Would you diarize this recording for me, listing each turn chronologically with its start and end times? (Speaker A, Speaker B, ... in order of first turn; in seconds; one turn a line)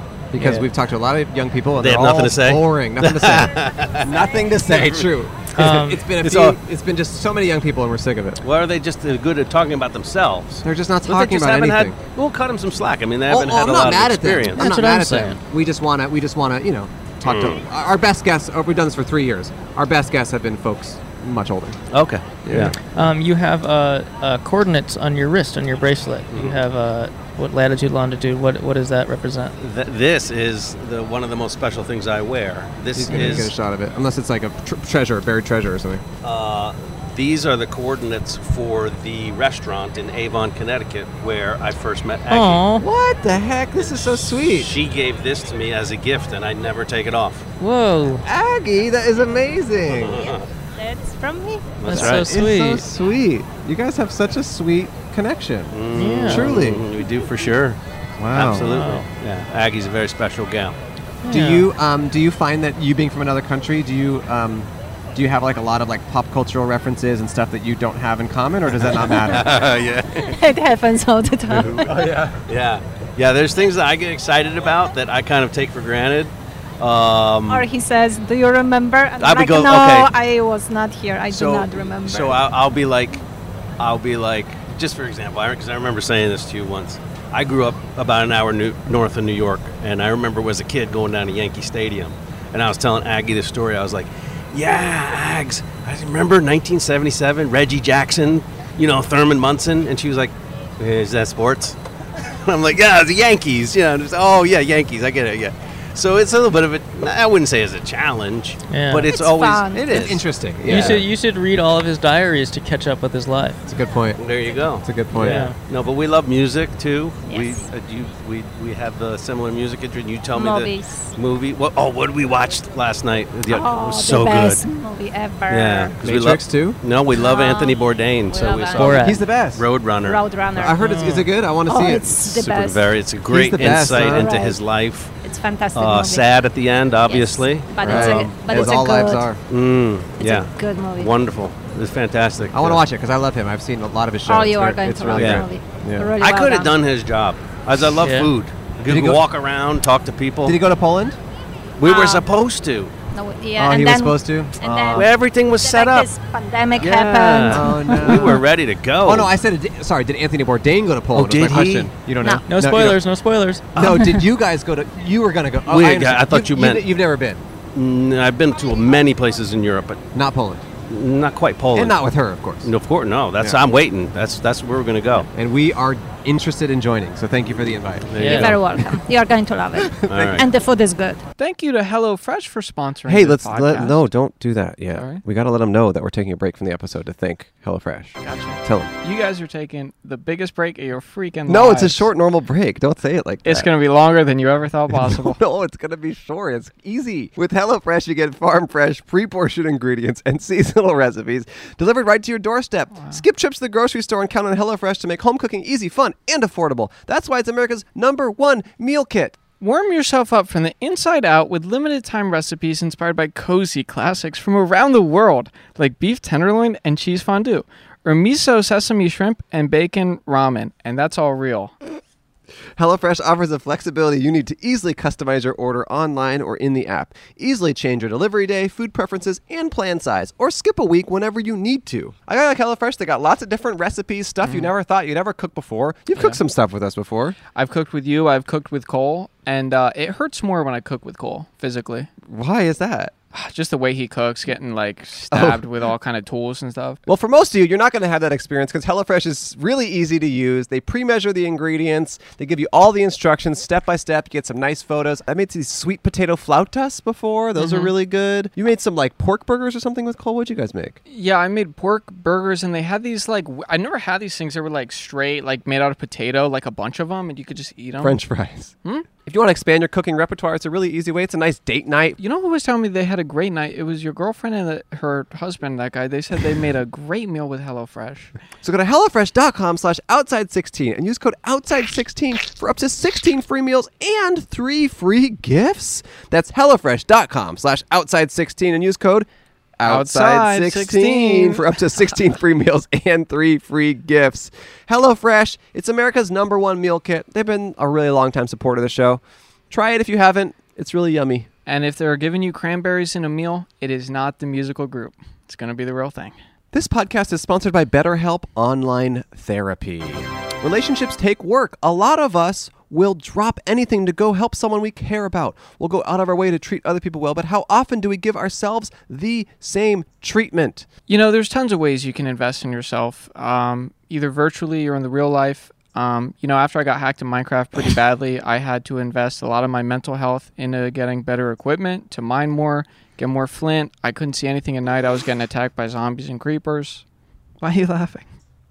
Speaker A: 0.3-8.4
Speaker B: 0.4-0.6
Speaker B: 1.8-5.0
Speaker C: 5.5-6.1
Speaker B: 6.2-6.6
Speaker B: 8.4-14.7
Speaker A: 10.6-11.9
Speaker A: 13.3-21.8
Speaker C: 14.6-15.4
Speaker B: 17.2-17.6
Speaker B: 21.9-22.8
Speaker C: 22.4-29.5
Speaker B: 26.3-26.6
Speaker B: 29.6-33.5
Speaker A: 33.0-36.0
Speaker C: 33.1-33.5
Speaker B: 36.2-42.6
Speaker C: 42.3-42.9
Speaker A: 42.8-44.7
Speaker B: 43.8-47.5
Speaker C: 47.6-48.2
Speaker A: 48.2-50.2
Speaker B: 49.9-50.5
Speaker D: 50.1-51.8
Speaker B: 51.8-52.3
Speaker C: 51.8-52.9
Speaker A: 51.9-55.7
Speaker B: 55.7-57.8
Speaker C: 55.9-56.5
Speaker A: 56.3-56.8
Speaker A: 58.2-58.7
Speaker B: 58.3-60.8
Speaker C: 58.4-59.1
Speaker C: 61.2-61.7
Speaker A: 61.3-69.5
Speaker B: 68.7-70.3
Speaker D: 70.2-72.2
Speaker B: 71.6-77.7
Speaker A: 72.0-72.3
Speaker D: 77.5-82.5
Speaker B: 79.2-80.1
Speaker B: 81.3-83.2
Speaker B: 83.8-111.0
Speaker C: 108.7-109.1
Speaker D: 109.1-110.1
Speaker A: 109.9-111.0
Speaker C: 110.7-113.6
Speaker A: 113.7-114.2
Speaker B: 114.2-124.7
Speaker A: 114.8-115.4
Speaker C: 115.2-115.5
Speaker D: 117.2-117.7
Speaker D: 120.3-121.1
Speaker D: 123.5-126.0
Speaker B: 125.5-130.2
Speaker A: 126.0-126.8
Speaker D: 127.1-129.1
Speaker C: 128.8-129.2
Speaker A: 129.0-129.6
Speaker D: 130.0-130.9
Speaker A: 130.5-132.2
Speaker C: 130.8-131.3
Speaker D: 131.7-132.8
Speaker B: 132.3-135.1
Speaker A: 133.3-134.4
Speaker D: 133.6-134.6
Speaker D: 135.2-136.3
Speaker B: 135.7-138.9
Speaker D: 137.0-139.3
Speaker A: 137.8-139.4
Speaker B: 139.5-142.8
Speaker D: 140.2-141.1
Speaker A: 142.5-146.1
Speaker D: 144.2-146.8
Speaker B: 145.1-145.5
Speaker B: 146.2-150.6
Speaker C: 148.0-148.3
Speaker A: 148.8-149.2
Speaker A: 150.4-151.2
Speaker B: 151.8-152.9
Speaker D: 151.8-152.3
Speaker D: 153.1-158.4
Speaker A: 153.6-155.1
Speaker B: 154.9-156.1
Speaker B: 156.8-159.3
Speaker A: 157.5-158.4
Speaker A: 159.0-163.0
Speaker B: 161.1-161.9
Speaker C: 162.5-163.7
Speaker A: 163.8-167.4
Speaker D: 163.8-164.3
Speaker B: 165.6-166.9
Speaker B: 167.7-170.0
Speaker A: 170.1-170.6
Speaker B: 170.8-172.0
Speaker A: 171.7-172.7
Speaker B: 172.6-175.3
Speaker A: 175.3-178.6
Speaker B: 178.1-178.8
Speaker C: 178.2-178.6
Speaker D: 178.2-181.2
Speaker B: 180.1-180.5
Speaker A: 180.1-180.5
Speaker E: 181.4-184.1
Speaker A: 183.1-188.9
Speaker E: 184.9-185.2
Speaker E: 188.2-192.1
Speaker A: 191.5-193.7
Speaker E: 193.4-195.4
Speaker A: 194.9-209.4
Speaker E: 202.9-203.2
Speaker E: 209.6-221.7
Speaker A: 222.8-237.4
Speaker E: 234.4-234.7
Speaker E: 237.5-242.1
Speaker A: 242.3-243.1
Speaker E: 243.3-247.0
Speaker A: 245.3-245.6
Speaker A: 247.1-261.0
Speaker E: 261.1-268.2
Speaker A: 268.0-272.2
Speaker E: 272.2-278.3
Speaker A: 278.6-289.3
Speaker A: 289.8-301.5
Speaker E: 289.8-291.7
Speaker E: 301.6-306.3
Speaker A: 306.7-320.9
Speaker E: 321.1-337.0
Speaker E: 337.6-338.3